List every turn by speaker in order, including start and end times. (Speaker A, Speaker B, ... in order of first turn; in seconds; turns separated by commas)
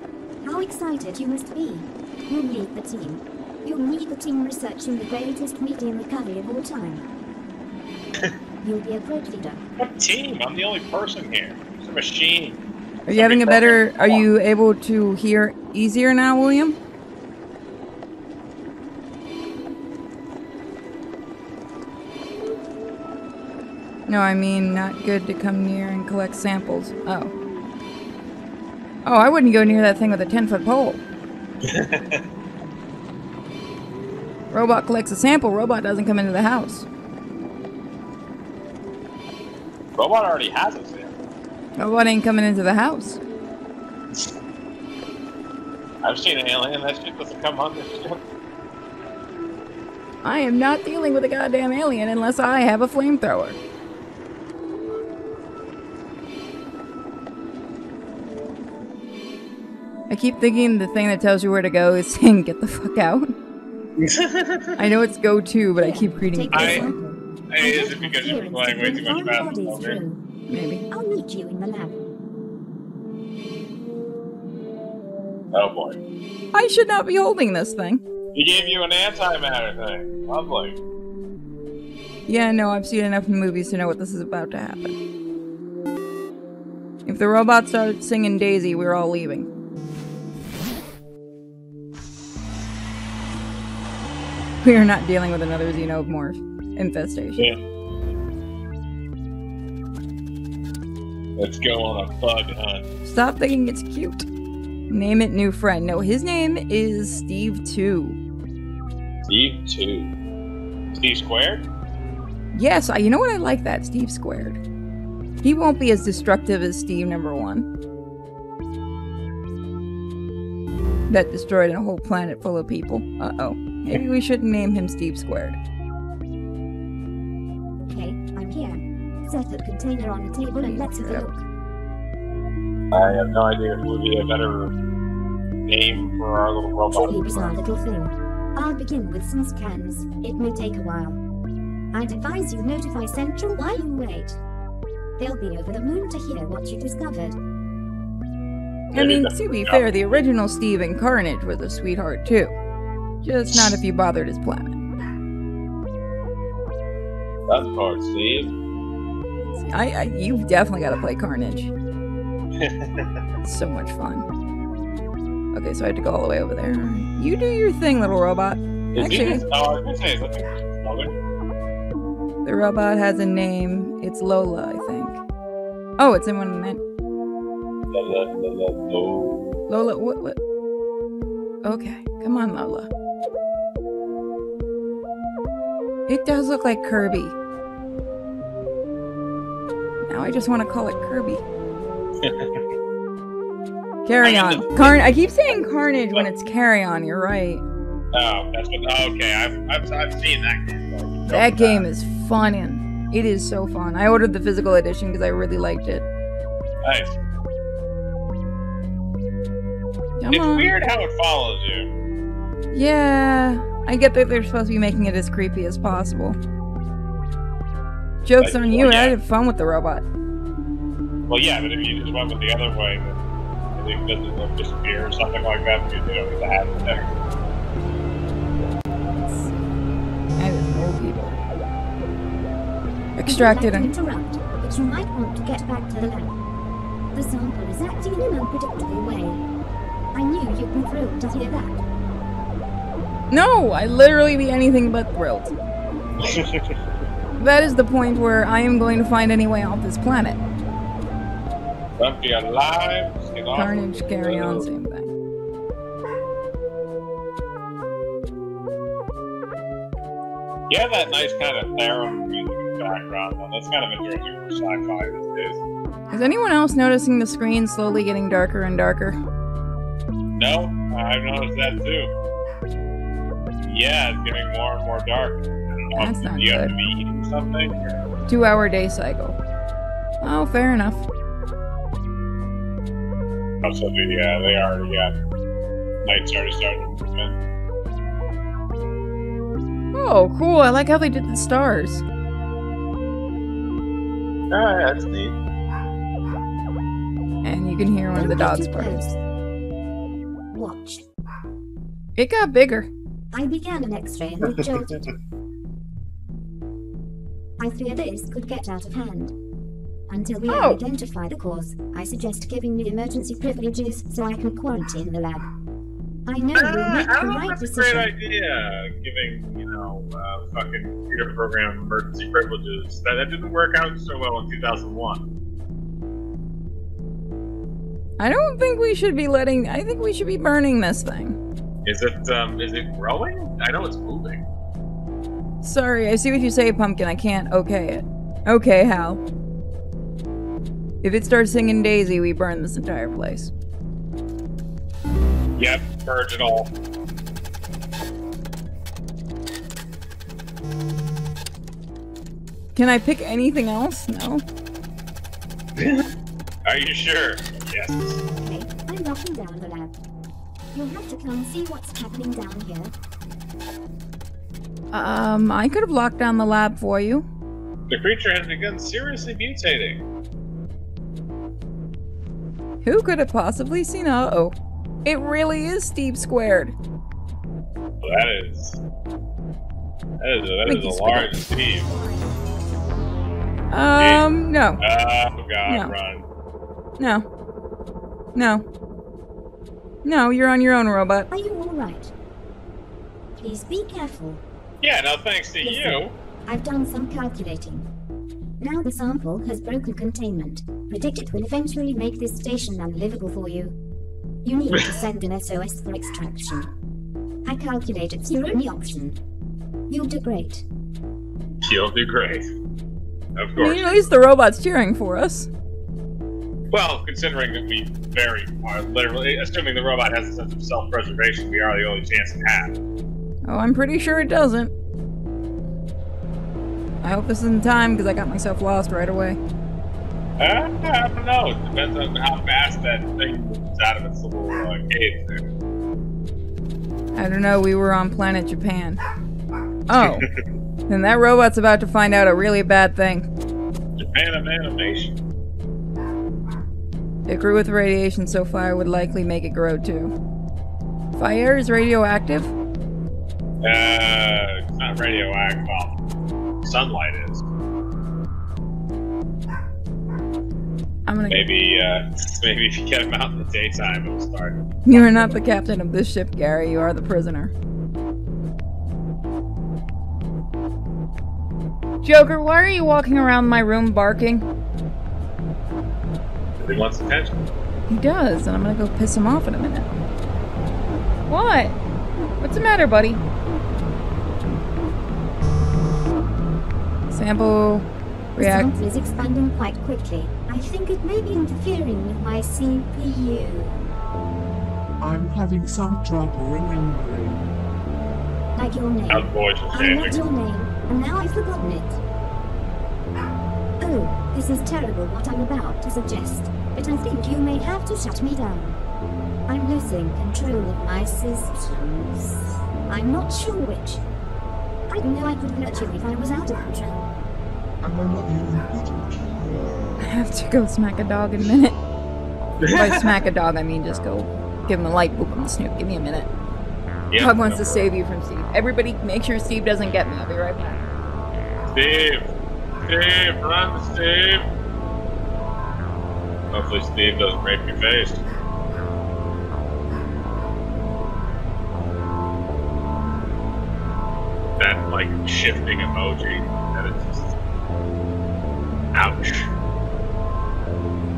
Speaker A: 0.4-7.1, Speaker A: 8.6-9.6, Speaker B: 9.8-14.3, Speaker C: 13.1-16.8, Speaker C: 24.1-27.3, Speaker C: 29.1-31.0, Speaker B: 31.6-32.2, Speaker C: 34.5-36.9, Speaker B: 40.0-41.2, Speaker C: 41.8-43.2, Speaker B: 46.0-48.2, Speaker C: 50.2-53.6, Speaker C: 60.1-63.3, Speaker B: 64.0-64.8, Speaker C: 64.8-66.9, Speaker A: 65.8-67.0, Speaker B: 66.5-66.9, Speaker B: 67.5-70.0, Speaker A: 67.6-70.2, Speaker C: 70.5-70.8, Speaker A: 70.9-72.0, Speaker B: 75.5-76.0, Speaker C: 76.5-78.0, Speaker B: 78.3-80.8, Speaker C: 82.3-85.0, Speaker C: 87.1-89.5, Speaker C: 94.6-97.5, Speaker B: 101.4-102.8, Speaker C: 103.0-104.3, Speaker C: 104.9-108.2, Speaker B: 109.3-110.1, Speaker B: 110.9-111.6, Speaker C: 112.5-114.6, Speaker C: 115.4-117.7, Speaker C: 121.1-125.6, Speaker A: 127.9-131.4, Speaker C: 130.6-131.3, Speaker B: 132.9-134.7, Speaker B: 135.7-137.6, Speaker A: 136.9-141.2, Speaker A: 141.9-144.4, Speaker A: 145.2-147.4, Speaker C: 148.9-152.5, Speaker B: 148.9-149.8, Speaker C: 153.2-154.8, Speaker B: 157.5-158.5, Speaker C: 159.5-161.7, Speaker B: 162.6-163.1, Speaker C: 163.4-164.3, Speaker C: 165.5-169.4, Speaker B: 168.9-171.1, Speaker C: 172.4-175.2, Speaker C: 176.0-176.8, Speaker B: 177.9-179.6, Speaker C: 179.7-180.4, Speaker C: 181.6-182.9, Speaker C: 186.1-187.3, Speaker C: 190.1-191.4, Speaker B: 192.2-192.6, Speaker C: 194.1-197.6, Speaker B: 194.2-195.0, Speaker B: 198.1-201.8, Speaker C: 201.3-206.1, Speaker B: 206.8-207.2, Speaker C: 210.2-210.7, Speaker B: 210.3-211.9, Speaker C: 212.7-216.4, Speaker C: 218.2-220.1, Speaker B: 218.4-219.2, Speaker B: 221.3-223.2, Speaker B: 223.8-227.0, Speaker C: 229.2-229.4, Speaker C: 230.4-231.3, Speaker C: 233.2-233.9, Speaker A: 233.2-236.3, Speaker A: 237.1-239.4, Speaker A: 240.1-241.8, Speaker C: 243.3-245.6, Speaker B: 246.2-246.8, Speaker C: 247.4-250.4, Speaker B: 252.0-254.7, Speaker C: 253.6-255.1, Speaker B: 260.7-265.6, Speaker C: 266.1-269.2, Speaker B: 270.4-272.1, Speaker B: 273.6-278.0, Speaker C: 275.9-276.8, Speaker C: 278.3-279.4, Speaker C: 280.2-281.1, Speaker B: 283.6-285.1, Speaker B: 286.0-287.4, Speaker C: 289.9-292.0, Speaker B: 294.5-295.4, Speaker C: 297.4-299.0, Speaker A: 298.1-299.2, Speaker A: 300.5-301.1, Speaker C: 302.2-302.9, Speaker A: 303.3-305.1, Speaker A: 307.6-309.4, Speaker A: 310.1-315.4, Speaker C: 310.5-310.8, Speaker A: 316.3-318.1, Speaker B: 316.6-325.2, Speaker C: 328.2-331.4, Speaker B: 331.9-334.4, Speaker C: 335.6-339.2, Speaker C: 341.0-343.5, Speaker B: 345.6-346.7, Speaker C: 352.8-354.4, Speaker B: 355.8-356.0, Speaker B: 356.6-358.2, Speaker A: 358.4-359.9, Speaker A: 360.7-362.9, Speaker C: 364.9-367.3, Speaker B: 367.9-370.0, Speaker C: 372.8-376.7, Speaker B: 378.0-378.8, Speaker B: 380.2-381.9, Speaker C: 380.6-381.3, Speaker A: 381.7-382.2, Speaker C: 383.7-384.8, Speaker B: 384.0-384.3, Speaker B: 384.8-386.2, Speaker C: 385.7-385.9, Speaker C: 387.0-387.3, Speaker C: 388.4-388.6, Speaker C: 390.1-391.3, Speaker A: 391.3-392.1, Speaker A: 393.4-394.4, Speaker B: 394.8-396.1, Speaker A: 395.6-397.9, Speaker A: 398.6-403.8, Speaker A: 404.4-406.7, Speaker B: 404.7-405.0, Speaker A: 407.4-409.2, Speaker A: 409.9-410.6, Speaker B: 411.6-412.4, Speaker B: 413.4-414.1, Speaker C: 413.6-415.5, Speaker B: 416.7-422.7, Speaker C: 423.4-424.7, Speaker C: 427.0-429.4, Speaker B: 430.4-435.4, Speaker C: 437.1-439.0, Speaker C: 439.9-440.3, Speaker B: 440.0-440.3, Speaker C: 440.9-443.3, Speaker B: 444.0-445.1, Speaker C: 447.3-450.1, Speaker C: 451.1-452.5, Speaker B: 453.6-455.9, Speaker B: 456.6-457.4, Speaker C: 461.1-461.5, Speaker B: 461.3-465.3, Speaker C: 464.9-467.5, Speaker C: 472.0-474.4, Speaker B: 476.6-477.4, Speaker C: 477.9-480.0, Speaker C: 481.3-481.8, Speaker C: 482.4-483.2, Speaker C: 487.1-488.7, Speaker A: 488.4-493.8, Speaker D: 495.0-497.5, Speaker A: 498.6-502.0, Speaker B: 499.1-500.2, Speaker A: 503.8-508.8, Speaker A: 509.5-512.3, Speaker A: 512.9-514.0, Speaker A: 514.9-517.0, Speaker D: 517.8-519.8, Speaker C: 520.0-521.8, Speaker B: 522.6-523.1, Speaker C: 522.6-526.3, Speaker B: 527.1-527.9, Speaker C: 527.2-530.9, Speaker B: 531.7-532.3, Speaker B: 532.8-534.5, Speaker B: 536.5-538.2, Speaker B: 544.6-547.3, Speaker B: 548.9-549.5